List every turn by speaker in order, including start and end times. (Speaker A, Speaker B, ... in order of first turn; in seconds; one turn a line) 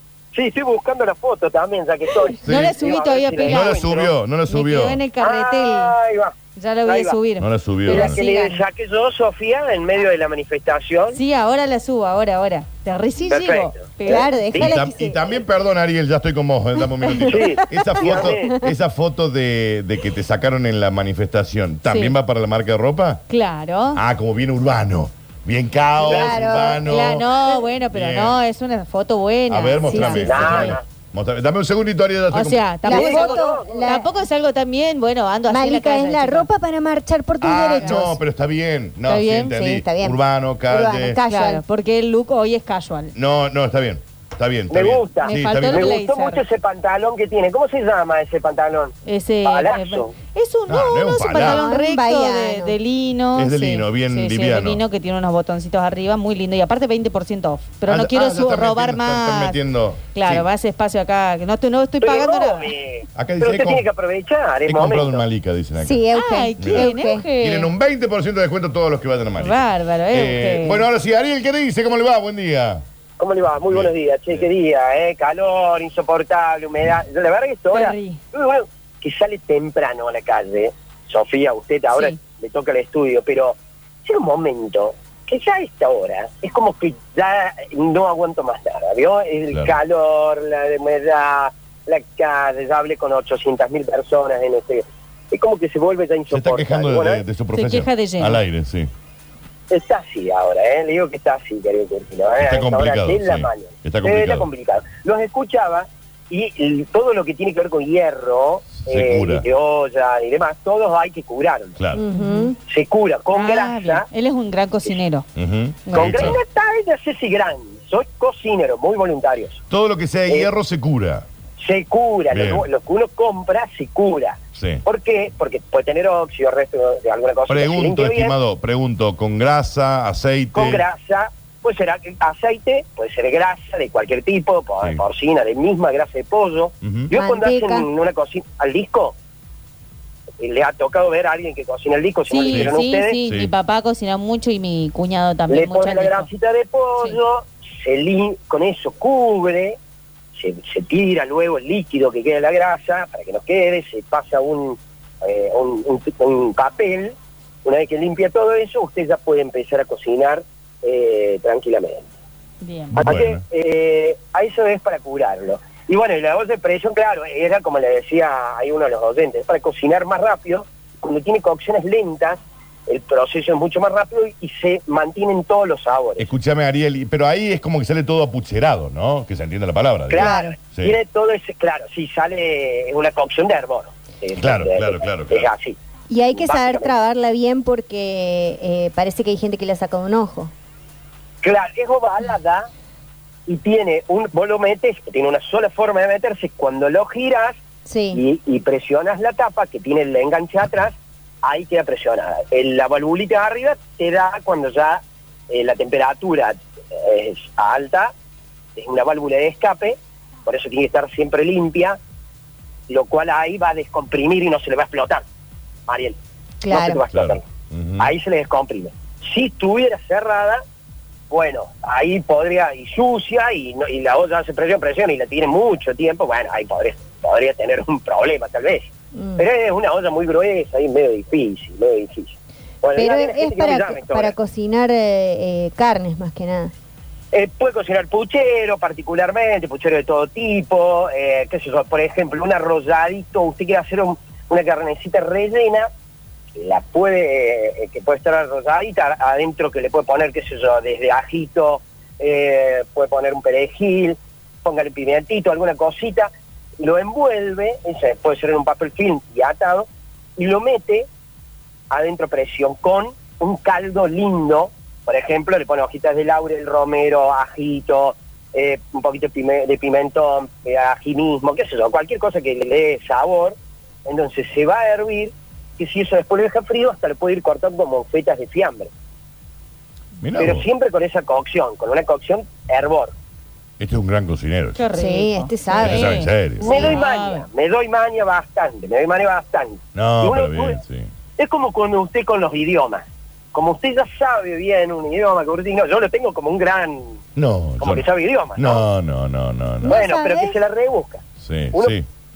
Speaker A: 0.3-4.1
Speaker B: 2.4-5.0
Speaker C: 2.4-3.8
Speaker C: 4.5-5.9
Speaker A: 5.2-6.3
Speaker C: 6.5-8.6
Speaker A: 6.8-7.2
Speaker B: 7.4-8.2
Speaker A: 7.9-11.2
Speaker C: 11.1-14.7
Speaker A: 13.3-14.7
Speaker D: 14.0-15.2
Speaker B: 14.6-23.2
Speaker A: 17.3-18.6
Speaker D: 17.7-18.7
Speaker C: 21.9-22.1
Speaker C: 23.3-24.0
Speaker B: 23.9-28.4
Speaker D: 26.0-26.8
Speaker A: 26.1-26.6
Speaker C: 26.8-30.7
Speaker B: 29.5-32.9
Speaker D: 29.9-30.5
Speaker A: 30.2-30.8
Speaker C: 32.3-36.5
Speaker D: 32.8-34.1
Speaker A: 32.9-33.8
Speaker D: 35.5-38.2
Speaker B: 37.4-41.2
Speaker C: 39.1-39.5
Speaker D: 39.5-41.6
Speaker C: 41.2-43.1
Speaker B: 43.1-46.0
Speaker A: 44.7-50.1
Speaker C: 45.2-46.4
Speaker C: 49.0-59.6
Speaker B: 50.7-51.6
Speaker D: 51.4-52.8
Speaker B: 53.3-54.8
Speaker B: 57.9-60.5
Speaker C: 60.1-62.7
Speaker A: 62.0-65.2
Speaker B: 63.1-63.9
Speaker B: 64.7-66.0
Speaker D: 65.8-67.2
Speaker C: 66.1-67.7
Speaker B: 66.6-72.8
Speaker C: 69.4-70.8
Speaker A: 73.2-97.2
Speaker B: 73.7-74.4
Speaker C: 77.7-78.2
Speaker C: 81.9-82.2
Speaker B: 96.3-98.9
Speaker C: 97.5-98.4
Speaker A: 99.7-111.8
Speaker B: 102.4-104.5
Speaker B: 108.7-109.5
Speaker B: 111.8-112.0
Speaker D: 111.9-112.5
Speaker C: 112.1-112.5
Speaker A: 112.6-114.0
Speaker C: 113.3-115.2
Speaker B: 115.3-116.4
Speaker C: 115.8-116.3
Speaker A: 115.9-119.6
Speaker B: 119.7-121.2
Speaker A: 121.6-128.3
Speaker B: 122.3-122.7
Speaker B: 124.5-124.8
Speaker B: 127.5-130.8
Speaker A: 130.5-139.1
Speaker B: 136.8-137.1
Speaker D: 137.1-137.9
Speaker A: 140.4-143.2
Speaker C: 142.3-146.3
Speaker B: 142.5-143.5
Speaker A: 145.5-149.8
Speaker A: 150.3-162.1
Speaker C: 162.6-163.1
Speaker B: 162.9-163.4
Speaker A: 163.0-176.3
Speaker B: 176.2-181.0
Speaker A: 180.1-185.8
Speaker D: 180.2-180.5
Speaker B: 184.4-185.5
Speaker D: 186.1-190.5
Speaker A: 186.3-186.9
Speaker A: 191.4-192.7
Speaker A: 193.5-197.6
Speaker D: 197.8-198.2
Speaker A: 198.1-208.1
Speaker A: 208.8-212.0
Speaker A: 212.9-215.2
Speaker A: 215.9-216.2
Speaker D: 216.6-217.0
Speaker A: 216.7-217.4
Speaker B: 217.1-218.1
Speaker A: 218.0-220.6
Speaker A: 221.3-234.3
Speaker D: 229.1-229.4
Speaker D: 232.9-236.7
Speaker A: 237.3-245.9
Speaker A: 246.6-261.1
Speaker A: 261.9-273.5
Speaker A: 274.1-278.9
Speaker B: 280.2-280.6
Speaker A: 280.4-283.1
Speaker B: 283.8-284.8
Speaker C: 284.8-287.4
Speaker D: 284.9-286.1
Speaker B: 285.8-287.0
Speaker A: 286.6-290.8
Speaker B: 289.9-291.1
Speaker A: 291.4-297.2
Speaker B: 297.4-300.0
Speaker A: 297.8-298.8
Speaker D: 299.8-300.6
Speaker A: 299.8-301.9
Speaker B: 301.4-302.0